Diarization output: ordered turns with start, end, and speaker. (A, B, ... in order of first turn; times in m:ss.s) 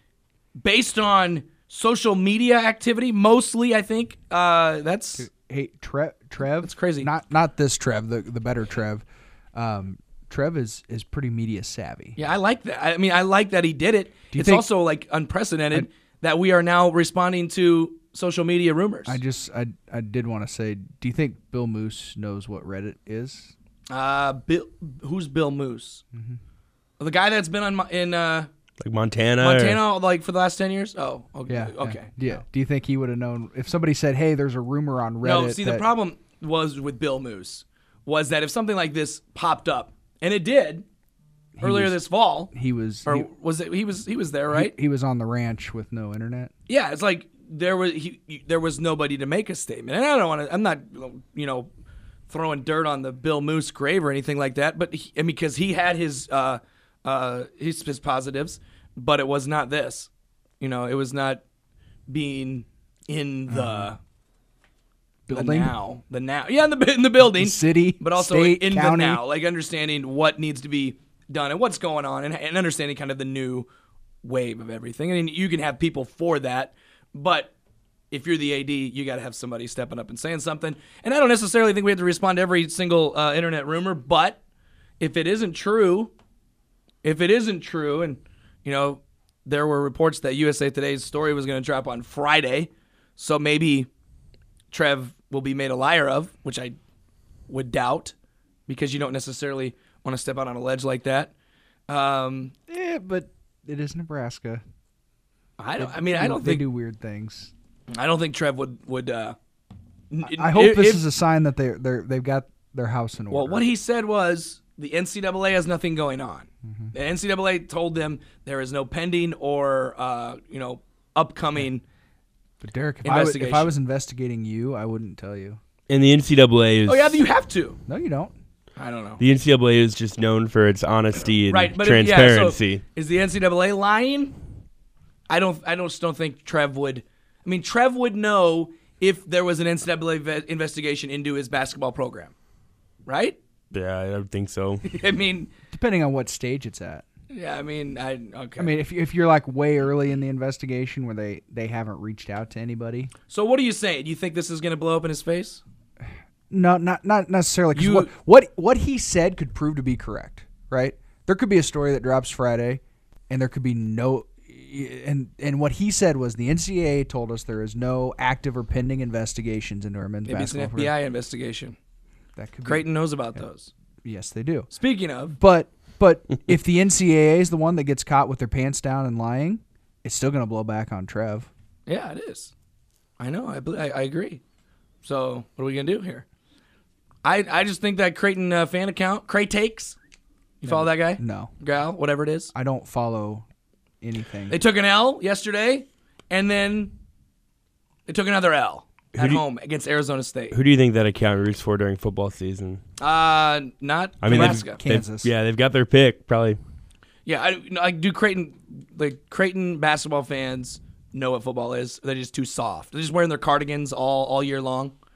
0:00.6-0:05.3 A
0:05.2-0:12.2 B
0:06.6-0:07.1 A
0:12.2-0:19.2 A
0:14.3-0:14.7 B
0:19.0-0:23.5 B
0:23.9-0:26.0 A
0:26.1-0:26.4 B
0:27.0-0:28.5 A
0:28.8-0:29.8 C
0:29.4-0:32.1 A
0:31.5-0:35.8 B
0:35.2-0:40.8 A
0:41.6-0:43.3 B
0:41.6-0:42.5 A
0:43.0-0:44.7 A
0:44.5-0:46.5 B
0:46.7-0:51.7 A
0:52.3-1:01.4 A
1:02.1-1:04.0 A
1:03.5-1:03.9 B
1:05.3-1:05.8 B
1:05.3-1:13.7 A
1:07.2-1:09.2 B
1:14.2-1:17.5 A
1:18.1-1:24.4 A
1:25.0-1:26.1 A
1:27.0-1:33.9 A
1:34.7-1:36.8 A
1:37.5-1:38.1 A
1:38.7-1:41.3 A
1:41.9-1:42.5 A
1:42.7-1:44.6 B
1:45.6-1:46.7 A
1:45.8-1:47.5 B
1:47.9-1:49.4 A
1:50.1-1:51.0 A
1:50.3-1:53.6 B
1:53.3-2:01.8 A
1:56.6-1:56.9 B
2:02.6-2:05.6 B
2:03.0-2:03.7 A
2:05.9-2:07.2 C
2:06.8-2:07.8 A
2:07.9-2:08.3 B
2:08.8-2:09.2 A
2:09.2-2:12.8 C
2:11.5-2:14.3 A
2:15.3-2:22.3 A
2:23.0-2:23.4 A
2:23.7-2:24.8 C
2:24.8-2:25.5 A
2:25.7-2:27.0 B
2:27.3-2:28.7 A
2:28.6-2:33.1 B
2:33.3-2:35.6 A
2:36.5-2:51.0 B
2:37.7-2:38.1 A
2:50.2-2:51.8 A
2:52.4-2:53.4 B
2:52.6-2:53.7 A
2:54.0-2:54.7 B
2:54.7-2:55.3 A
2:55.3-3:01.5 B
3:01.9-3:02.5 A
3:03.2-3:04.4 A
3:05.0-3:06.2 A
3:07.2-3:10.0 A
3:10.6-3:12.5 A
3:10.6-3:11.5 B
3:12.5-3:13.4 B
3:14.0-3:14.6 B
3:14.5-3:16.9 A
3:18.0-3:20.6 A
3:19.2-3:19.4 C
3:20.5-3:22.8 C
3:23.0-3:24.8 A
3:24.2-3:26.6 C
3:24.3-3:25.3 B
3:27.2-3:34.9 A